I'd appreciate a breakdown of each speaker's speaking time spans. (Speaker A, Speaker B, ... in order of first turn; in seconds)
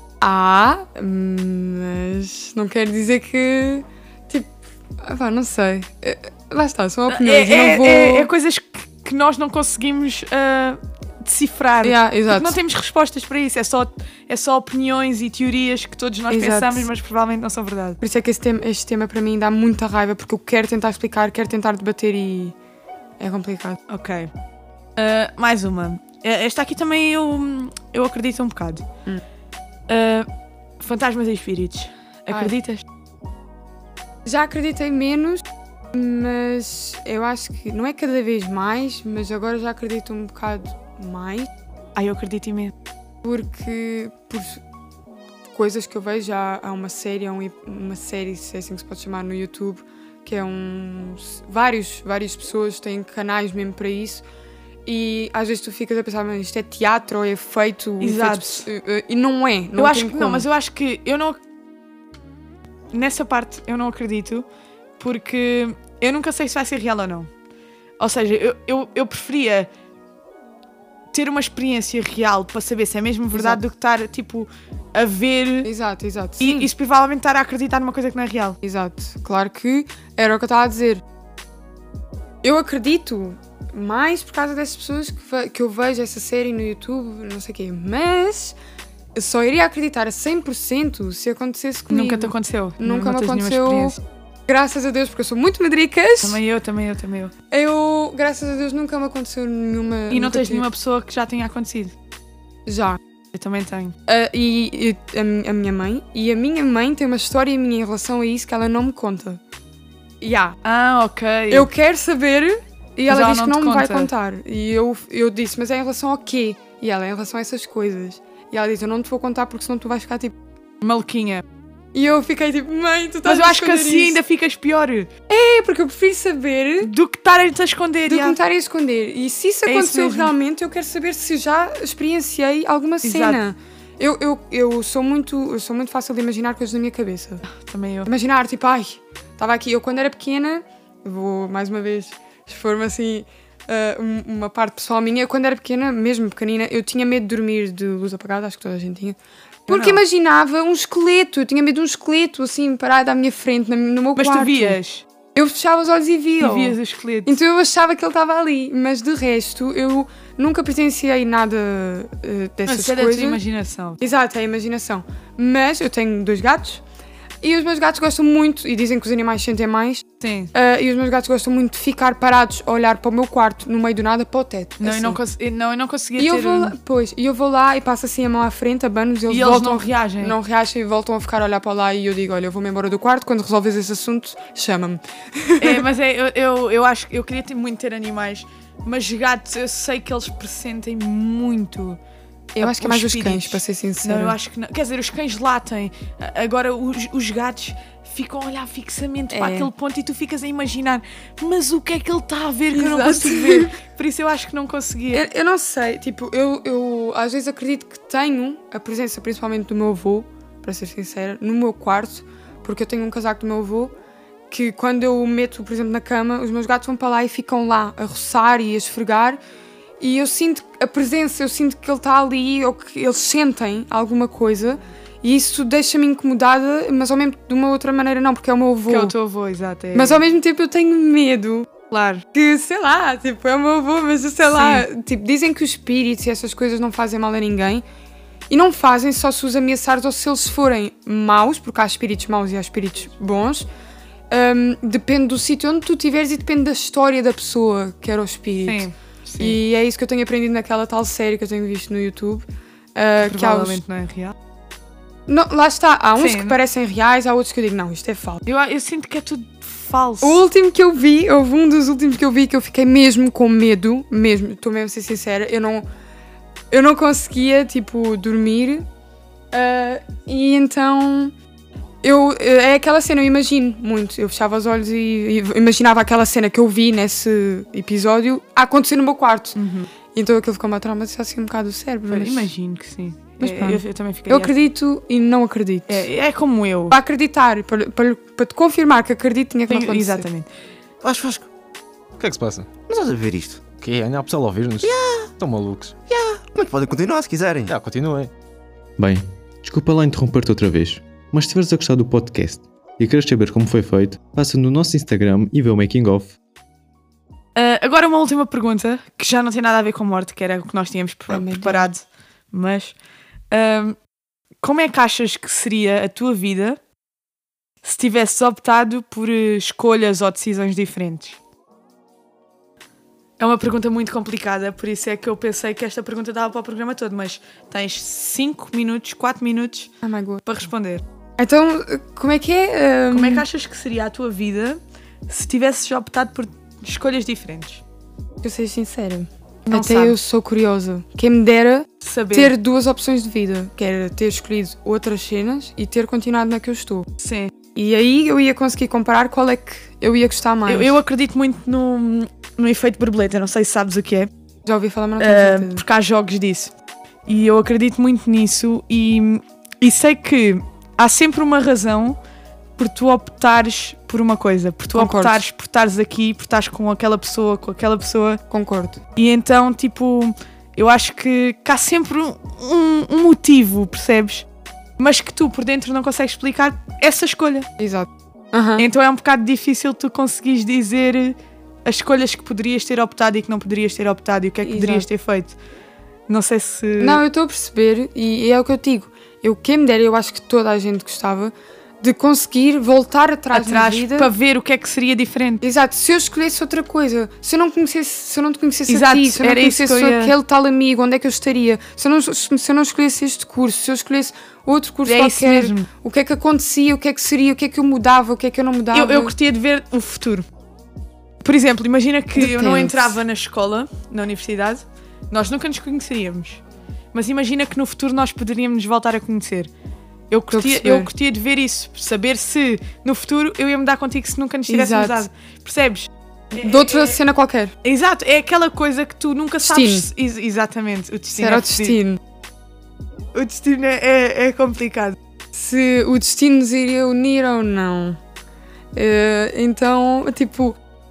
Speaker A: 0.2-4.5, 5.0-8.3, 11.8-12.6, 16.3-16.9, 18.0-22.6, 23.2-23.8, 34.2-41.5, 43.2-44.6, 45.5-54.2, 54.9-60.5, 73.3-73.6, 75.6-76.7, 78.6-81.0, 82.4-88.6, 89.2-96.4, 97.5-100.7, 102.7-103.0, 104.1-109.4, 110.2-110.6, 111.5-120.3, 121.9-124.2, 125.3-126.9, 128.1-137.5, 138.1-154.8, 155.3-163.4, 164.0-166.8, 167.4-175.2, 176.2-185.8, 192.6-194.4, 199.3-199.7, 202.7-203.8, 205.1-213.9, 214.5-219.4, 220.0-229.1, 229.9-231.7, 232.3-237.8, 238.5-243.7, 244.3-248.9, 249.4-253.8, 255.3-258.4, 260.2-265.9, 266.7-268.9, 269.5-271.3, 272.0-279.6, 280.1-282.5, 283.4-286.1, 286.9-290.3, 311.3-311.9, 330.0-330.4, 331.4-333.5, 338.4-347.1, 347.8-351.0, 354.7-355.8, 364.9-365.4, 368.5-369.0, 377.8-378.9, 384.6-385.1, 387.0-394.3, 395.6-409.3, 412.4-413.2, 420.5-421.1, 424.7-425.3, 426.5-427.7, 429.6-430.1, 431.3-432.2, 435.5-438.2, 438.9-440.8
Speaker B: 7.1-18.0, 23.9-24.3, 25.0-28.8, 29.9-30.3, 30.8-32.8, 42.0-42.7, 58.0-58.7, 59.8-61.4, 62.9-64.5, 65.0-67.3, 68.0-69.7, 71.1-75.7, 76.4-78.6, 91.9-94.0, 96.2-97.3, 100.1-101.9, 103.3-104.0, 110.6-111.7, 113.1-114.1, 120.8-121.5, 123.2-125.1, 126.8-128.4, 129.7-130.3, 133.0-133.4, 137.5-138.1, 149.7-150.0, 154.2-155.1, 156.4-157.4, 162.7-164.0, 170.2-170.5, 174.8-176.8, 179.3-180.4, 185.6-192.0, 192.6-205.2, 228.9-230.2, 231.9-232.2, 234.6-234.9, 248.7-249.6, 253.2-254.3, 256.2-256.6, 258.5-260.4, 279.6-279.9, 282.1-284.6, 285.9-287.0, 289.7-290.5, 307.6-312.9, 313.5-314.0, 314.6-316.8, 317.8-321.4, 323.4-329.9, 330.4-331.0, 333.1-337.8, 339.7-340.2, 342.0-342.5, 347.2-347.5, 350.7-354.3, 355.2-356.7, 357.3-362.2, 362.8-368.4, 369.2-374.4, 375.0-377.7, 378.8-385.6, 386.3-387.2, 393.5-395.6, 398.9-400.4, 405.1-405.9, 408.9-410.5, 411.4-416.6, 417.1-419.7, 420.3-427.2, 427.8-432.0, 433.3-435.2
Speaker C: 291.0-291.5, 292.9-293.6, 294.8-295.3, 296.1-297.7
Speaker D: 292.2-292.8, 293.7-296.0, 297.7-298.3
Speaker E: 299.0-306.4